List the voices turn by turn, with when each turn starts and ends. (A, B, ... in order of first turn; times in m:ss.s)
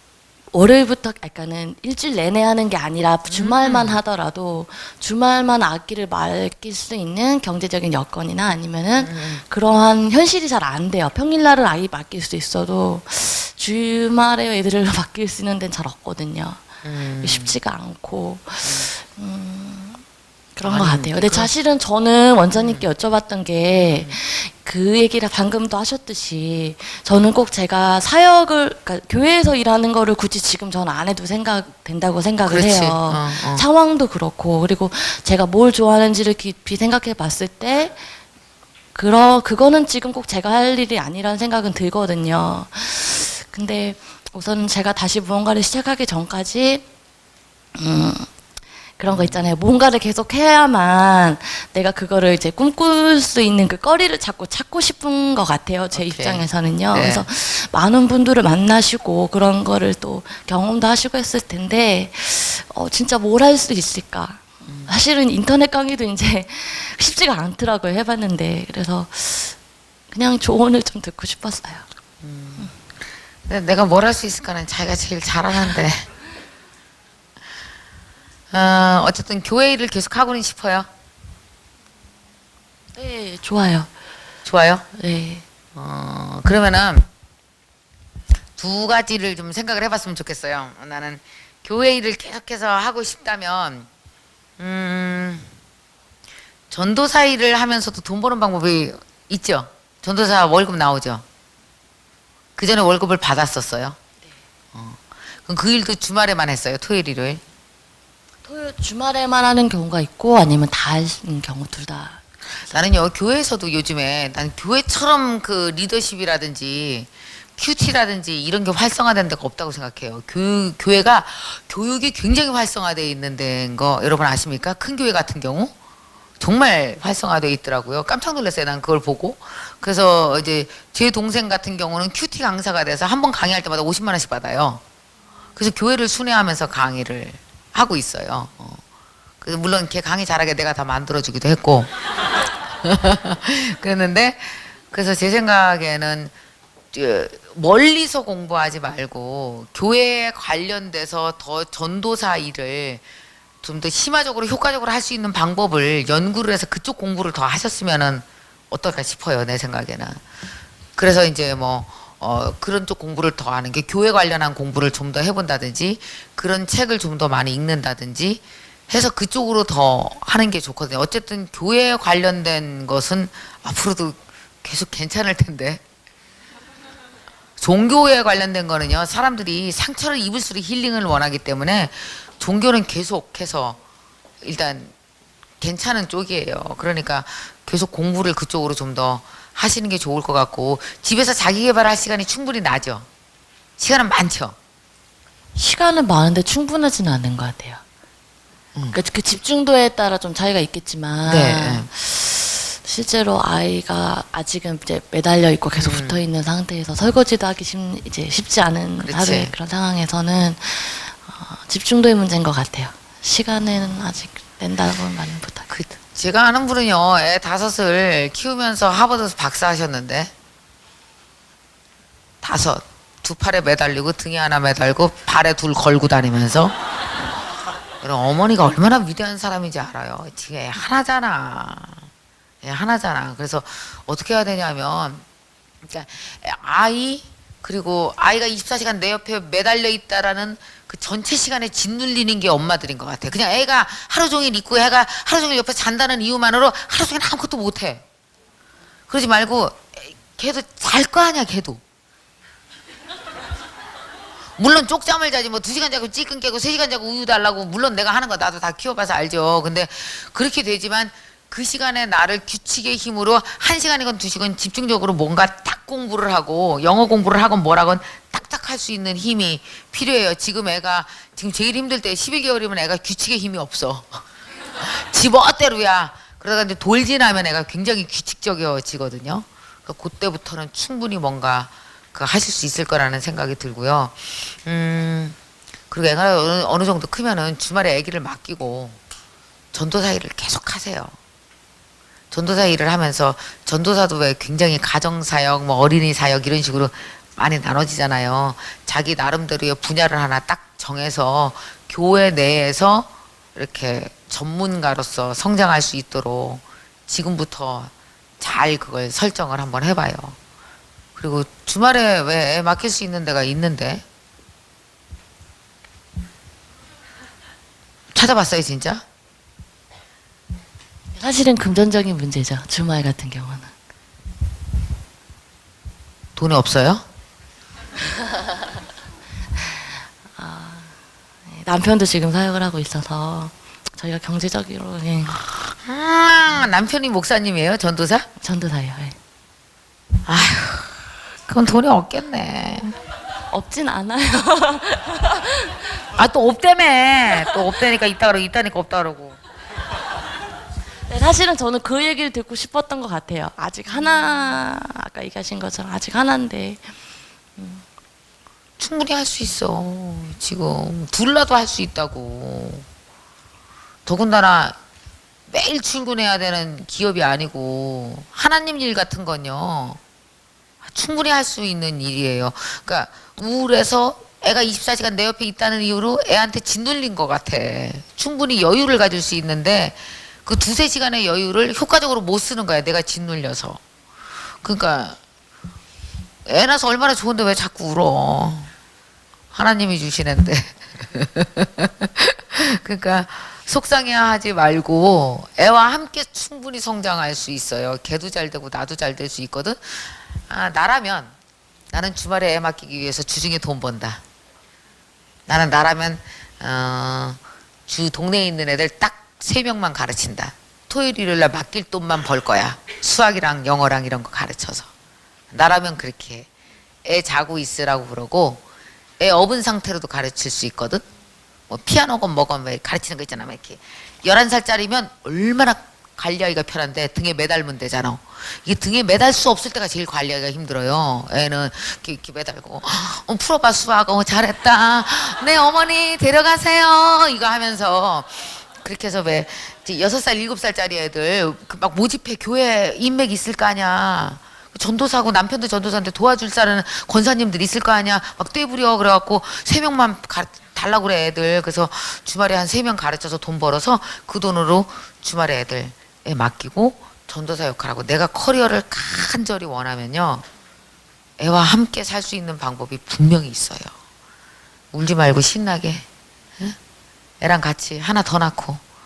0:00.5-0:16.6 A
0:03.3-0:04.0 B
0:09.0-0:09.4 B
0:16.8-0:17.5 B
0:17.2-0:20.0 A
0:18.6-0:18.9 B
0:20.5-0:38.0 A
0:20.6-0:21.5 B
0:22.5-0:22.8 B
0:23.8-0:24.2 B
0:32.4-0:33.6 B
0:38.9-0:46.8 A
0:47.7-0:48.3 A
0:49.0-1:09.6 A
0:49.1-0:49.4 B
0:55.9-0:57.3 B
1:04.7-1:04.9 B
1:10.1-1:11.8 A
1:12.2-1:12.7 B
1:13.4-1:16.0 B
1:18.5-1:20.9 B
1:22.9-1:23.9 A
1:24.4-1:24.8 B
1:24.9-1:25.4 A
1:25.7-1:27.1 B
1:28.6-1:33.9 B
1:34.6-1:35.5 B
1:36.7-1:41.2 B
1:42.6-1:44.0 B
1:44.7-1:47.4 B
1:48.4-1:52.7 A
1:52.7-2:05.7 B
2:06.4-2:14.8 B
2:15.6-2:18.8 B
2:19.4-2:21.9 B
2:22.8-2:26.3 B
2:26.9-2:33.0 B
2:33.6-2:40.2 B
2:41.0-2:55.8 B
2:57.6-3:03.8 B
3:04.4-3:04.9 B
3:05.6-3:13.1 B
3:13.8-3:14.5 B
3:15.6-3:17.8 A
3:18.9-3:35.7 A
3:21.2-3:21.9 B
3:25.7-3:26.2 B
3:29.0-3:29.5 B
3:35.7-3:40.3 B
3:42.4-3:46.7 B
3:48.0-3:52.1 B
3:52.6-3:55.2 B
3:55.8-4:08.0 B
4:09.1-4:11.8 B
4:14.6-4:34.2 B
4:34.8-4:45.4 B
4:45.9-4:49.0 B
4:49.7-4:51.1 B
4:52.3-5:10.4 B
5:11.2-5:14.0 B
5:18.1-5:19.0 B
5:21.1-5:23.7 A
5:26.4-5:27.0 B
5:30.4-5:30.9 A
5:31.5-5:35.5 A
5:35.8-5:38.2 B
5:38.4-5:39.2 A
5:40.2-5:40.9 B
5:41.5-5:43.0 B
5:43.5-5:45.8 A
5:46.1-5:49.4 B
5:51.1-5:56.9 A
5:57.6-5:57.8 A
5:58.8-6:02.8 B
6:04.0-6:04.8 B
6:05.5-6:10.0 B
6:10.8-6:23.8 B
6:24.6-6:25.2 B
6:26.4-6:28.7 B
6:29.5-6:41.3 B
6:41.9-6:44.2 B
6:45.5-6:54.9 B
6:55.5-6:56.5 B
6:57.0-6:58.6 B
6:59.2-7:01.0 B
7:01.7-7:40.4 B
7:41.4-7:43.9 B
7:44.9-7:46.0 B
7:47.4-7:48.8 B